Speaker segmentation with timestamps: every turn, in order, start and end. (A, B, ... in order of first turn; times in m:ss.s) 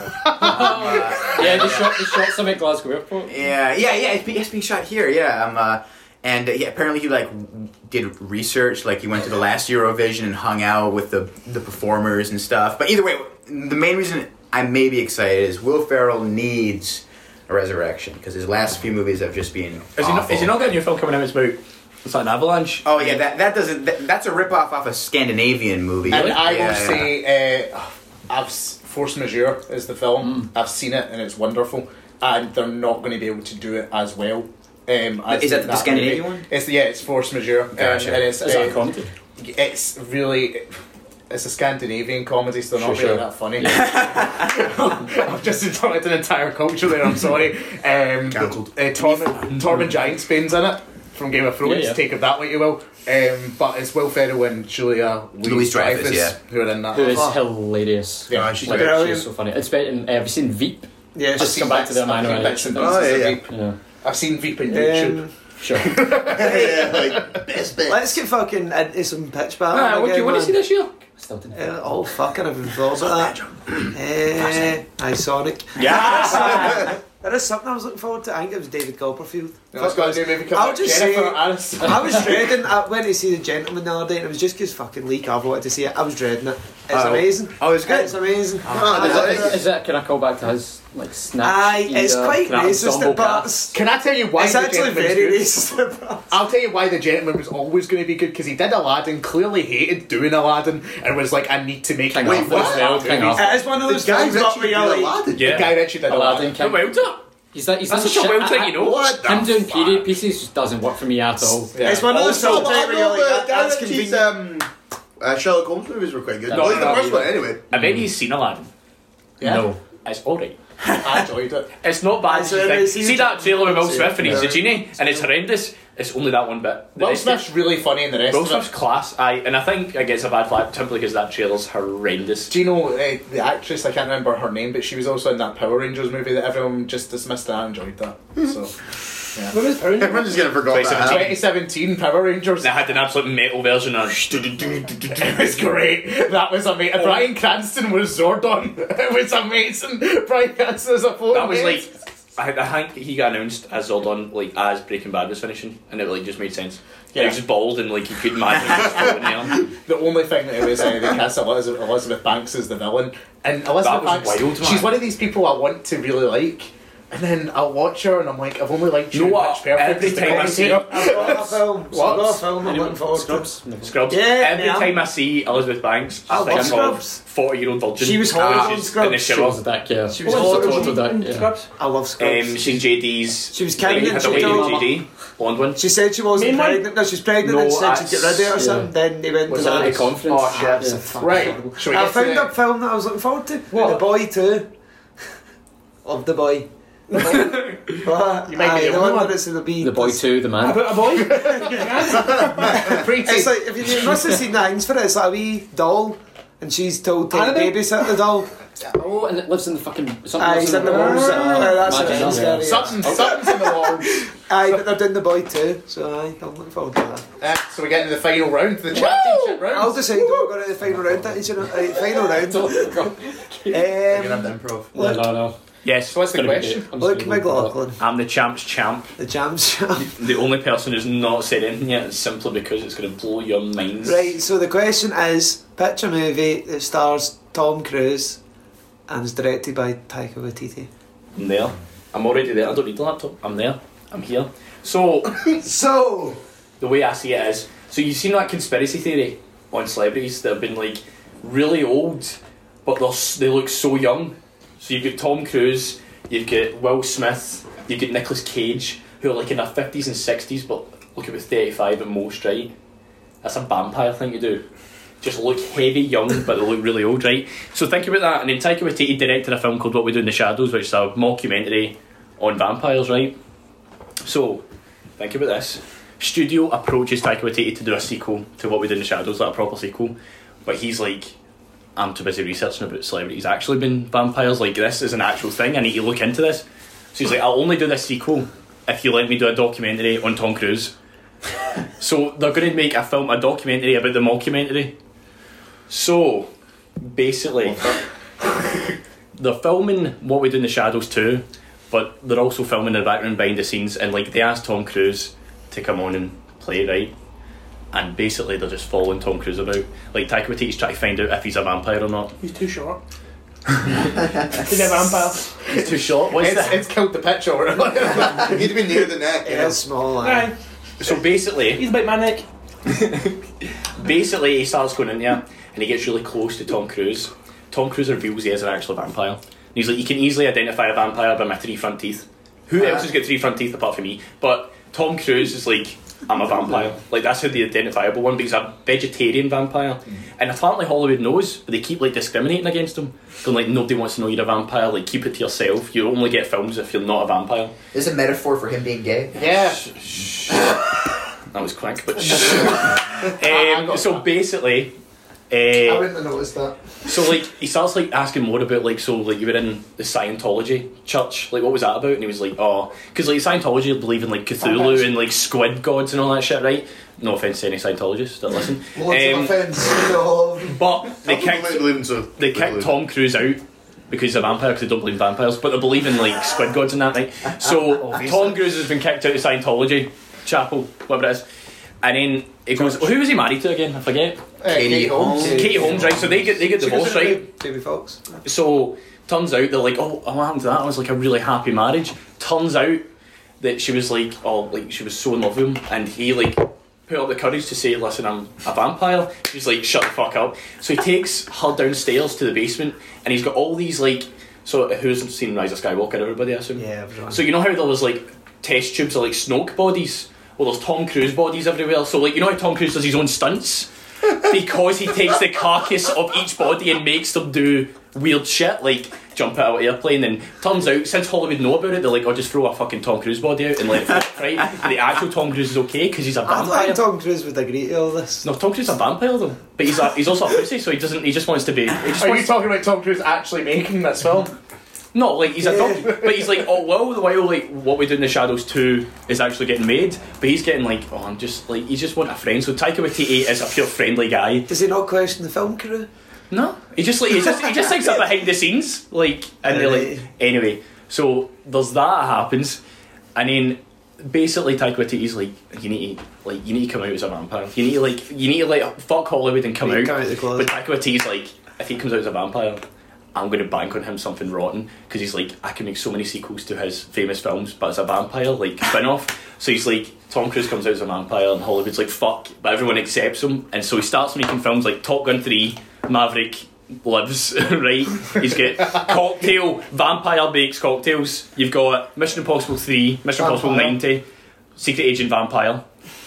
0:00.4-0:03.4 A
0:00.4-0:02.1 B
0:00.4-0:00.8 C
0:03.3-0:20.5 B
0:20.0-0:23.2 D
0:22.8-0:27.2 B
0:26.0-0:38.8 C
0:35.3-0:36.4 B
0:37.8-0:38.2 B
0:38.2-0:39.1 A
0:39.4-0:40.7 C
0:41.3-0:57.4 C
0:42.8-0:44.0 A
0:43.7-0:44.4 B
0:48.3-0:48.7 E
0:49.2-0:49.9 D
0:51.6-0:52.0 A
0:55.4-0:56.4 B
0:56.9-1:03.8 A
0:58.3-0:59.0 E
0:58.3-0:58.7 C
0:58.6-0:59.3 F
1:01.1-1:01.9 F
1:01.4-1:03.5 C
1:02.7-1:03.4 E
1:04.0-1:05.2 C
1:04.7-1:05.3 F
1:05.6-1:06.0 A
1:05.8-1:07.4 C
1:06.0-1:08.1 E
1:06.3-1:07.0 F
1:07.9-1:10.6 F
1:09.7-1:10.9 D
1:11.2-1:12.1 A
1:11.5-1:13.4 F
1:13.9-1:29.6 F
1:15.8-1:16.7 D
1:16.5-1:16.9 E
1:19.7-1:22.5 C
1:26.9-1:28.0 E
1:28.7-1:29.6 E
1:28.9-1:33.5 A
1:31.4-1:33.8 F
1:33.7-1:35.5 C
1:34.3-1:36.4 F
1:36.3-1:43.6 C
1:42.1-1:43.6 A
1:42.2-1:45.6 E
1:43.3-1:45.3 F
1:45.4-1:45.8 D
1:45.4-1:46.6 C
1:46.0-1:46.9 A
1:46.6-1:47.2 D
1:47.5-1:52.0 A
1:47.9-1:49.1 D
1:48.7-1:50.2 E
1:51.7-1:52.3 C
1:51.8-1:54.4 F
1:52.0-1:54.7 E
1:55.2-1:57.7 E
1:56.5-1:58.0 A
1:56.5-1:58.7 D
1:59.4-1:59.6 C
1:59.4-1:59.8 A
2:00.0-2:00.6 D
2:00.9-2:01.7 C
2:01.8-2:07.5 D
2:02.2-2:05.3 F
2:07.0-2:08.7 C
2:08.3-2:12.5 D
2:12.5-2:18.7 C
2:19.5-2:20.6 G
2:19.9-2:21.4 E
2:20.6-2:21.4 D
2:20.9-2:22.8 C
2:22.6-2:25.4 D
2:25.1-2:31.9 C
2:27.0-2:27.2 D
2:31.3-2:39.6 D
2:39.8-2:52.4 C
2:43.8-2:45.0 D
2:49.1-2:51.3 D
2:50.3-2:53.5 F
2:52.8-2:54.0 A
2:53.8-2:59.6 D
2:54.1-2:54.9 F
2:56.3-2:57.2 F
2:56.5-2:56.8 A
2:58.0-2:59.5 F
2:59.2-3:01.5 A
3:00.1-3:01.0 F
3:00.2-3:01.7 G
3:01.8-3:02.8 F
3:02.2-3:05.8 D
3:03.5-3:05.0 F
3:03.8-3:04.9 A
3:05.8-3:14.7 F
3:06.3-3:06.9 G
3:07.4-3:08.6 D
3:08.5-3:08.9 A
3:09.5-3:11.5 A
3:09.5-3:10.9 D
3:11.1-3:12.5 C
3:16.0-3:20.2 F
3:17.1-3:17.8 G
3:18.5-3:19.4 G
3:19.8-3:21.0 A
3:20.6-3:22.8 G
3:21.4-3:28.5 F
3:22.6-3:24.3 C
3:27.3-3:27.8 G
3:28.9-3:33.2 A
3:30.4-3:33.5 F
3:32.3-3:34.3 C
3:34.5-3:37.3 F
3:37.4-3:40.2 C
3:39.0-3:43.1 F
3:42.3-3:43.8 A
3:43.7-3:45.3 F
3:44.1-3:44.8 E
3:44.9-3:45.5 A
3:45.8-3:46.3 D
3:46.0-3:46.9 C
3:46.3-3:47.8 A
3:47.0-3:48.0 F
3:48.0-3:49.1 D
3:49.2-3:50.1 F
3:50.0-3:54.3 D
3:54.0-3:58.4 F
3:59.1-4:00.9 F
4:01.4-4:05.6 D
4:05.5-4:06.4 F
4:06.8-4:22.7 D
4:23.4-4:24.6 D
4:25.2-4:33.4 D
4:34.2-4:34.6 D
4:35.2-4:41.3 D
4:42.0-4:50.9 D
4:52.0-4:54.9 D
4:55.9-4:56.5 D
4:57.0-4:57.9 D
4:59.4-5:07.1 D
5:07.9-5:12.3 D
5:12.4-5:13.0 G
5:14.6-5:15.5 G
5:15.7-5:16.8 D
5:15.9-5:18.7 C
5:18.2-5:19.8 E
5:19.4-5:20.5 F
5:20.2-5:20.6 G
5:21.0-5:21.9 D
5:21.7-5:22.4 G
5:22.9-5:23.3 D
5:24.0-5:47.7 D
5:47.9-5:49.4 B
5:49.3-5:49.8 C
5:49.8-5:50.9 D
5:51.5-5:54.9 D
5:53.2-5:54.3 C
5:55.5-5:56.1 D
5:55.8-5:56.8 F
5:57.0-6:09.7 D
6:04.6-6:05.1 F
6:09.0-6:10.8 F
6:10.6-6:21.4 D
6:11.2-6:12.9 E
6:22.0-6:24.4 D
6:24.6-6:26.1 C
6:24.6-6:25.7 B
6:25.2-6:28.4 F
6:25.4-6:27.4 D
6:28.4-6:33.0 D
6:33.6-7:07.0 D
6:46.8-6:47.4 F
7:06.4-7:08.5 F
7:08.4-7:12.6 D
7:12.1-7:14.5 C
7:15.1-7:24.7 D
7:15.6-7:16.2 F
7:24.7-7:26.1 F
7:26.5-7:32.8 D
7:27.4-7:28.2 F
7:29.7-7:30.2 F
7:33.3-7:42.8 D
7:39.8-7:40.7 F
7:43.3-8:04.2 D
8:03.4-8:04.0 F
8:04.8-8:05.8 D